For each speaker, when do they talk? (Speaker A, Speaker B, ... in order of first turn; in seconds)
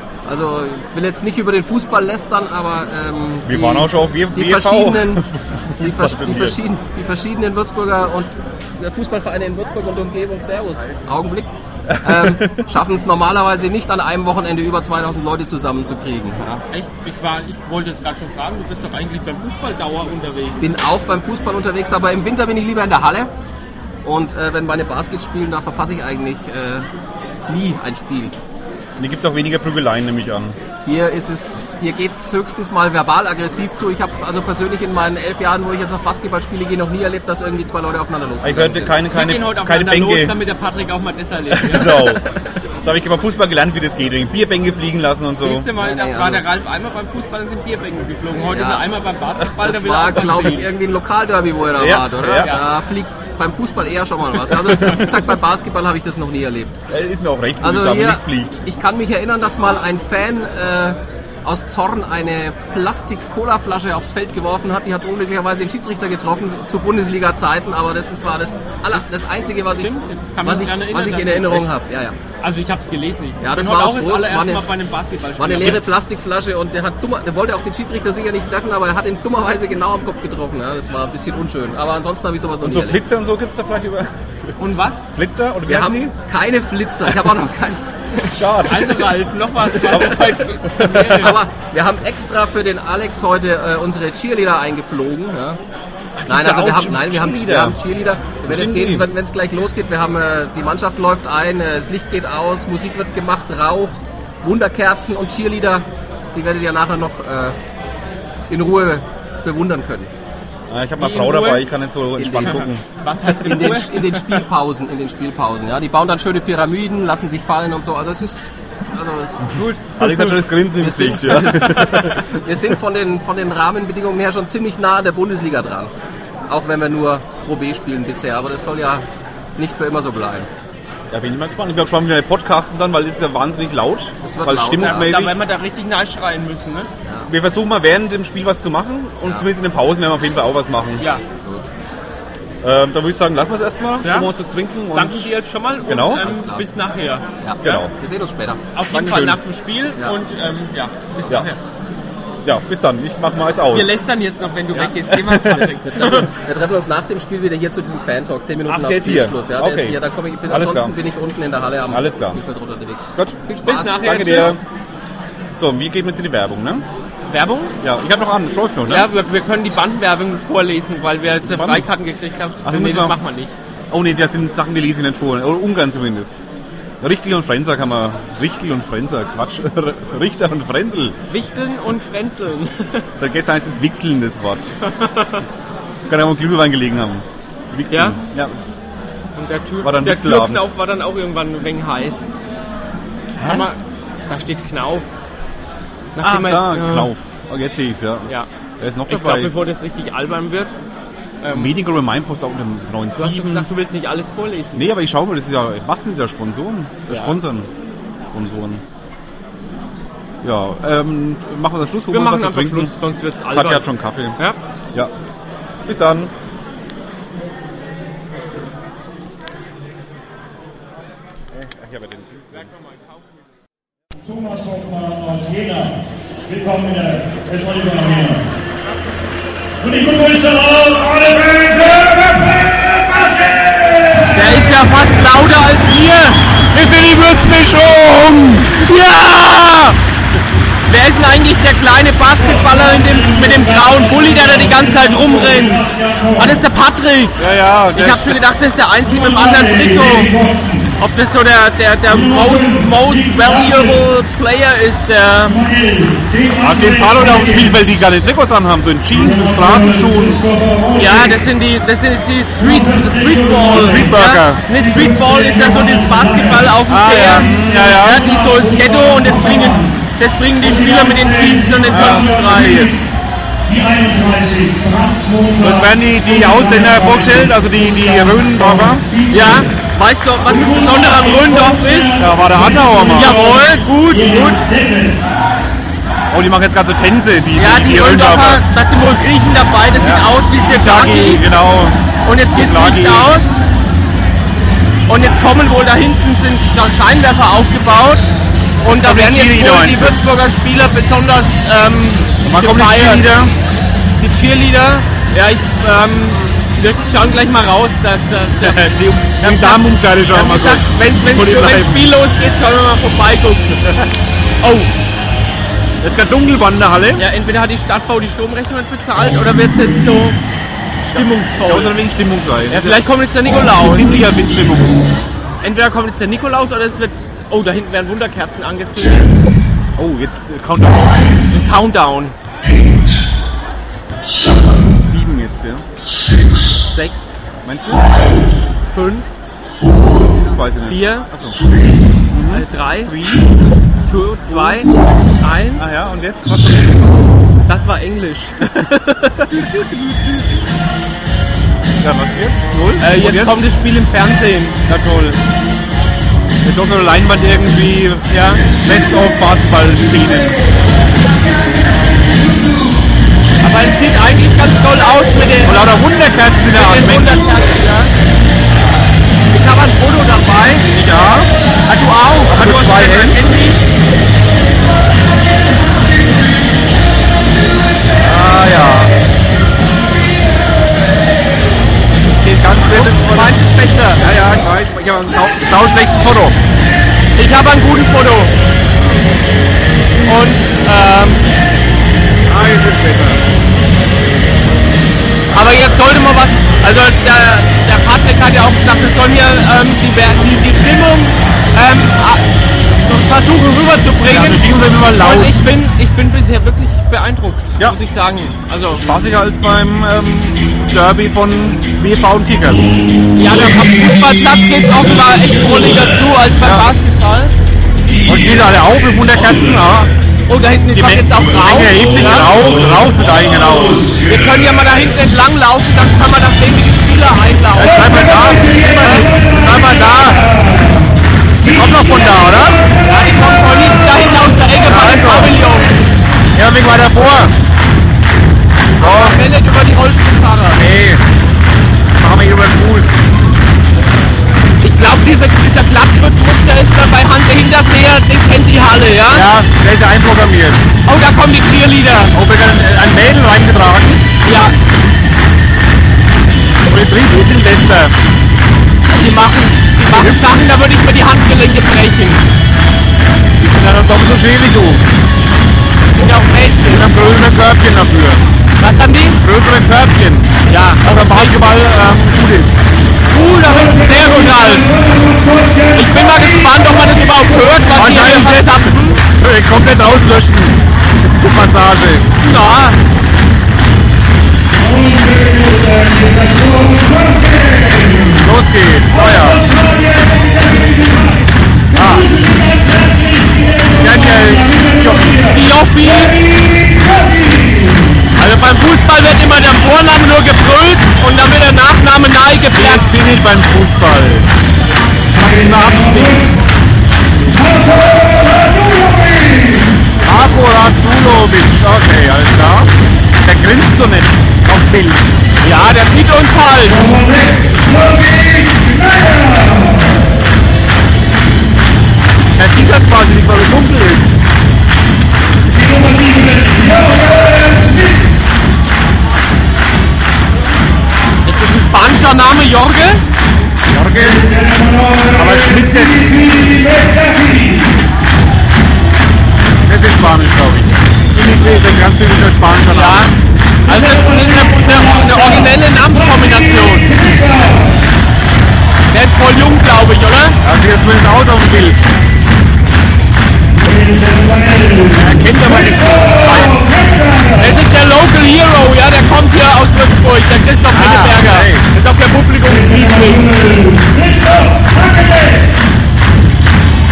Speaker A: 0.2-5.2, 5.8-16.6, 20.6-23.3, 24.0-26.9, 27.5-28.4, 30.8-39.0, 45.8-46.5, 48.5-48.9, 49.6-56.8, 57.6-72.2, 73.4-74.6, 75.4-83.0, 85.7-88.6, 91.1-95.6, 96.2-107.6, 108.5-110.1, 112.2-112.7, 113.3-119.4, 120.7-125.9, 126.5-129.0, 129.6-130.5, 134.2-135.2, 141.4-141.7, 146.1-146.7, 147.4-148.6, 155.8-164.5
Speaker B: 3.5-6.6, 11.9-12.6, 29.0-30.6, 38.4-40.4, 41.6-42.2, 42.8-45.7, 51.8-52.5, 56.9-58.6, 82.6-84.5, 85.1-86.1, 88.3-89.1, 90.7-91.2, 96.2-97.8, 98.5-99.1, 110.7-112.8, 119.5-122.2, 131.1-135.4, 137.3-141.1, 142.6-145.3, 145.9-146.2, 147.6-147.9, 148.9-149.4, 152.4-153.9, 155.1-155.7, 158.7-160.9, 161.9-162.4, 164.0-164.6, 165.5-166.8, 167.8-169.1, 171.4-171.9, 172.6-173.2, 173.9-176.4, 177.0-181.2, 183.2-184.7, 186.1-188.6, 189.8-190.7, 193.4-193.7, 196.2-199.5, 201.5-203.7, 204.8-207.7, 208.2-208.8, 210.4-212.9, 213.5-214.4, 215.8-216.3, 221.5-222.7, 236.7-238.9, 247.4-248.3, 256.6-260.4, 263.7-264.6, 266.9-268.2, 271.9-272.9, 275.6-279.0, 282.2-283.4, 286.3-288.6, 289.9-293.4, 298.9-300.2, 302.4-303.5, 308.6-312.0, 316.0-317.3, 321.0-323.0, 323.7-325.1, 329.9-331.2, 335.0-335.8, 337.6-338.1, 340.2-341.6, 342.3-343.5, 344.5-344.9, 345.8-347.0, 349.5-350.4, 352.0-353.6, 354.9-355.4, 356.6-360.6, 365.6-367.5, 370.9-371.5, 372.4-373.4, 378.2-379.1, 382.2-383.6, 384.1-386.6, 392.5-393.4, 404.2-405.6, 408.9-412.9, 416.6-416.9, 418.2-420.1, 420.9-424.2, 427.7-430.5, 431.6-432.9, 434.8-435.6, 436.5-437.5, 439.0-439.4, 440.7-441.2, 442.2-443.2, 449.3-450.8, 452.3-454.2, 456.9-458.1, 460.1-460.5, 463.6-465.0, 466.9-468.4, 469.4-472.8, 477.9-482.4, 488.4-489.6, 491.9-492.3, 494.0-495.4, 502.7-504.5, 505.3-506.5, 510.2-515.2, 522.5-524.3, 533.9-534.5, 535.3-536.6, 539.8-543.3, 550.6-552.0, 555.1-556.9, 560.9-561.9
Speaker C: 16.7-20.6, 39.1-42.1, 45.4-50.7, 69.8-71.7, 72.4-75.8, 84.6-85.1, 88.7-91.4, 111.0-111.7, 112.5-114.4, 119.5-120.2, 134.8-136.9, 144.0-144.3, 144.9-147.2, 148.7-151.6, 153.7-156.3, 163.6-164.6, 167.3-167.8, 168.9-173.6, 181.3-183.1, 184.8-185.4, 187.9-188.2, 189.3-192.3, 193.4-195.2, 196.1-197.1, 199.1-200.8, 201.4-201.8, 203.1-204.9, 207.1-207.4, 212.1-214.6, 234.3-236.4, 238.8-240.0, 240.8-250.3, 251.0-255.6, 260.9-272.9, 279.3-282.2, 283.1-284.6, 287.6-291.4, 292.2-293.6, 295.1-298.3, 298.8-303.3, 304.2-314.1, 314.6-314.9, 317.1-320.4, 321.1-322.0, 322.7-324.1, 325.6-329.3, 331.5-332.3, 336.9-337.3, 338.8-339.3, 340.8-341.3, 342.5-343.2, 344.1-345.9, 347.7-349.6, 353.0-354.8, 358.3-358.6, 363.6-365.8, 366.7-368.1, 369.5-370.9, 371.9-373.8, 382.9-384.2, 387.4-388.5, 390.2-391.4, 395.5-402.4, 403.0-409.1, 413.4-417.5, 420.5-422.5, 424.3-429.4, 433.0-436.0, 439.0-440.9, 444.8-449.5, 451.1-452.3, 454.4-454.7, 459.1-462.4, 466.1-467.1, 468.8-469.4, 470.7-471.6, 473.3-474.9, 475.9-479.2, 482.4-483.0, 495.5-496.4, 498.4-503.1, 515.6-517.0, 531.5-533.2, 542.9-543.3, 543.9-547.3, 549.1-550.6, 557.5-563.6
Speaker D: 224.2-228.5, 229.8-234.3, 242.3-246.6, 249.0-250.9, 252.1-254.0, 255.4-257.9, 259.1-261.4, 262.6-266.8, 267.3-270.0, 270.6-273.0, 273.7-279.7, 280.5-285.2, 473.8-476.7, 484.8-488.4, 489.1-498.2, 507.6-509.9, 516.9-520.0, 525.7-528.1, 534.3-537.8, 543.9-545.6, 547.2-547.7, 553.8-555.3, 555.8-557.5, 562.7-565.7